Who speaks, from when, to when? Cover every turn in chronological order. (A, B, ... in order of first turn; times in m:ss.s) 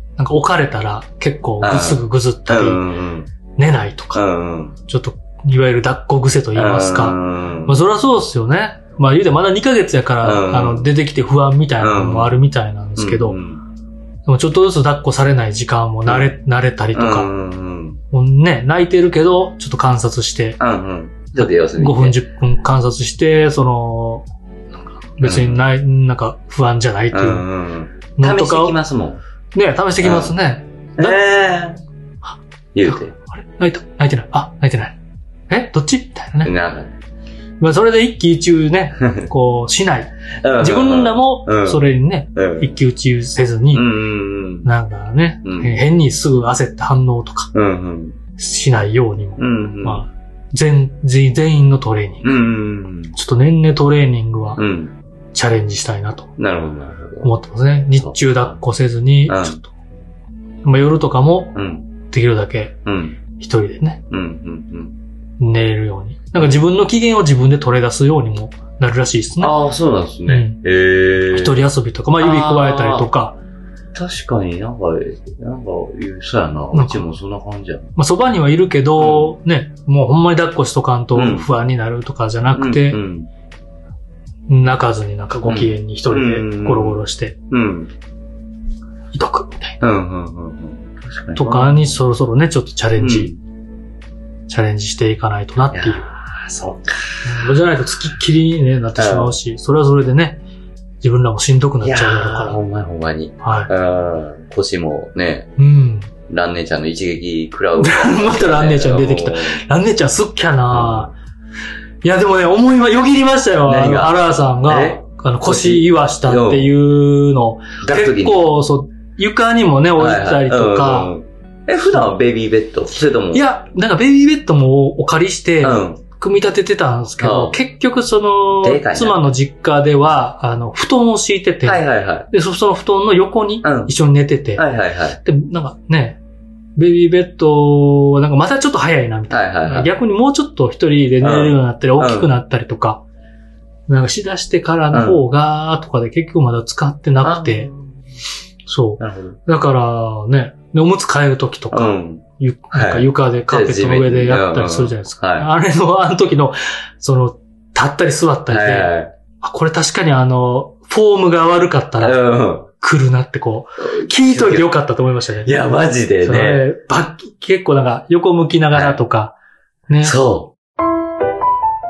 0:00.2-0:02.8 A
0:01.6-0:03.3 B
0:03.6-0:04.2 A
0:04.1-0:04.8 B
0:04.9-0:13.4 A
0:06.5-0:07.8 B
0:10.2-0:10.9 B
0:11.8-0:12.4 B
0:13.0-0:13.6 B
0:14.2-0:17.3 A
0:16.0-0:16.4 B
0:16.9-0:18.0 B
0:18.1-0:20.6 A
0:20.6-0:22.2 B
0:21.3-0:24.3 A
0:25.2-0:27.5 A
0:25.2-0:25.6 B
0:27.1-0:29.2 B
0:28.2-0:28.8 A
0:29.5-0:31.2 A
0:30.0-0:30.3 B
0:31.0-0:31.8 B
0:32.7-0:33.1 B
0:32.8-0:35.0 A
0:35.5-0:36.5 A
0:36.4-0:36.9 B
0:37.6-0:44.0 A
0:40.4-0:42.7 B
0:43.7-0:44.7 B
0:44.6-0:47.5 A
0:45.4-0:45.8 B
0:47.5-0:48.2 B
0:48.4-0:52.4 A
0:49.4-0:50.0 B
0:52.2-0:53.2 B
0:53.1-0:54.6 A
0:54.6-0:54.9 B
0:55.3-0:56.3 A
0:56.4-0:57.3 B
0:57.2-0:59.7 A
0:57.9-0:58.6 B
0:59.3-0:59.6 B
1:00.6-1:01.5 A
1:01.5-1:01.9 B
1:02.1-1:02.7 A
1:02.8-1:03.2 B
1:03.3-1:04.0 A
1:04.1-1:05.0 B
1:05.4-1:09.6 A
1:09.4-1:11.7 B
1:10.3-1:10.6 A
1:11.3-1:13.4 A
1:12.2-1:13.1 B
1:13.9-1:17.9 B
1:16.7-1:17.1 A
1:18.0-1:23.0 A
1:19.0-1:19.3 B
1:21.1-1:21.5 B
1:22.5-1:23.3 B
1:24.5-1:27.4 A
1:25.4-1:27.9 B
1:29.1-1:29.8 A
1:29.8-1:31.9 B
1:31.3-1:33.3 A
1:33.0-1:33.4 B
1:34.5-1:36.1 A
1:35.7-1:37.4 B
1:37.2-1:40.4 A
1:39.0-1:39.4 B
1:41.0-1:42.6 A
1:41.8-1:45.5 B
1:43.4-1:43.7 A
1:45.6-1:46.1 A
1:46.3-1:49.6 B
1:47.8-1:51.1 A
1:50.7-1:51.1 B
1:52.0-2:01.1 A
1:53.6-1:56.7 B
1:57.8-1:58.5 B
2:00.0-2:03.4 B
2:03.3-2:14.6 A
2:05.6-2:06.0 B
2:07.2-2:07.6 B
2:08.6-2:09.2 B
2:11.6-2:12.3 B
2:13.6-2:13.9 B
2:14.5-2:15.2 B
2:15.2-2:16.2 A
2:16.8-2:23.0 A
2:19.3-2:19.9 B
2:21.2-2:22.3 B
2:23.9-2:27.7 A
2:24.9-2:25.2 B
2:27.2-2:28.0 B
2:28.7-2:42.2 A
2:29.0-2:29.4 B
2:31.7-2:35.5 B
2:38.5-2:39.1 B
2:42.0-2:42.7 B
2:42.8-2:49.3 A
2:43.8-2:44.8 B
2:45.4-2:46.6 B
2:48.7-2:49.0 B
2:49.9-2:50.2 A
2:50.0-2:50.5 B